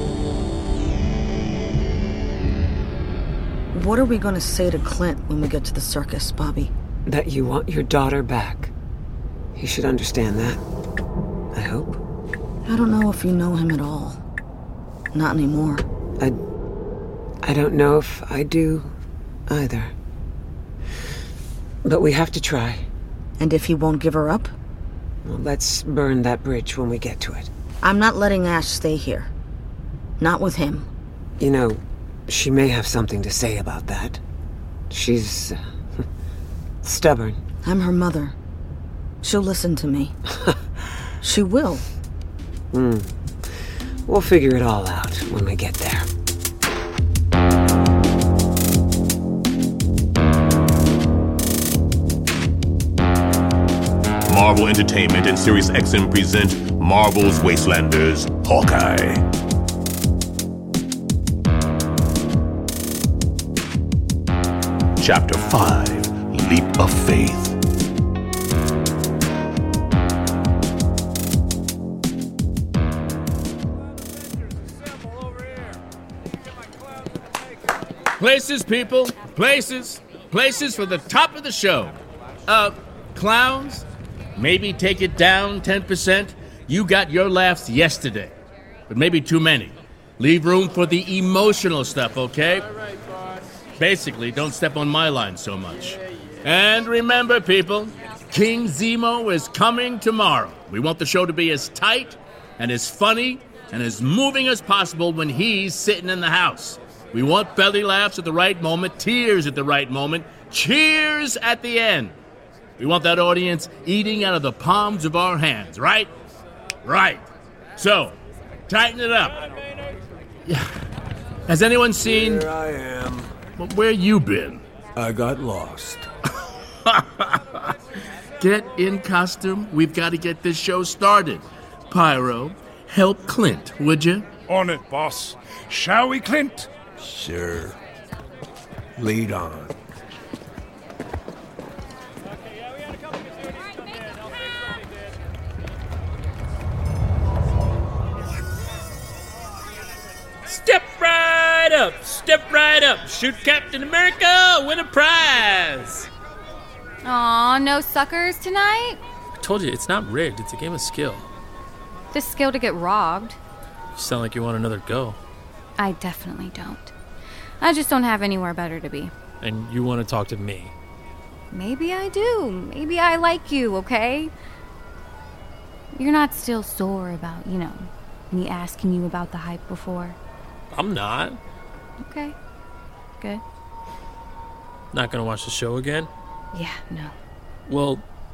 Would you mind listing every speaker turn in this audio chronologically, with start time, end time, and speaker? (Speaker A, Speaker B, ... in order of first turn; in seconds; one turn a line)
Speaker A: 3.7-6.7
Speaker B: 7.1-8.7
Speaker B: 9.6-10.6
Speaker B: 11.5-12.0
Speaker A: 12.7-14.2
Speaker A: 15.1-15.8
Speaker B: 17.4-18.9
Speaker B: 19.5-19.9
Speaker B: 21.8-22.9
Speaker A: 23.4-24.5
Speaker B: 25.2-27.5
Speaker A: 27.8-29.3
Speaker A: 30.2-30.9
Speaker B: 31.4-34.2
Speaker B: 34.9-36.1
Speaker B: 36.8-37.4
Speaker A: 37.6-38.4
Speaker A: 39.2-40.1
Speaker A: 41.2-41.9
Speaker B: 42.7-43.1
Speaker B: 44.1-46.1
Speaker C: 54.3-59.2
Speaker C: 65.0-67.6
Speaker D: 78.2-88.3
Speaker D: 88.9-92.7
Speaker D: 93.8-112.2
Speaker D: 112.8-116.1
Speaker D: 116.8-117.3
Speaker D: 117.8-119.4
Speaker D: 121.5-122.5
Speaker E: 122.0-123.3
Speaker D: 123.6-124.6
Speaker E: 125.0-126.1
Speaker D: 128.4-134.3
Speaker F: 134.5-136.7
Speaker E: 137.0-137.8
Speaker E: 139.0-139.8
Speaker G: 150.5-156.1
Speaker H: 157.0-159.0
Speaker G: 159.4-161.3
Speaker H: 162.1-163.4
Speaker G: 163.9-165.2
Speaker H: 165.8-166.9
Speaker H: 167.6-169.1
Speaker G: 169.4-170.7
Speaker H: 171.5-174.3
Speaker H: 175.9-180.2
Speaker G: 180.7-181.4
Speaker H: 182.0-182.4
Speaker G: 184.9-186.1
Speaker H: 186.5-187.1
Speaker G: 187.7-188.0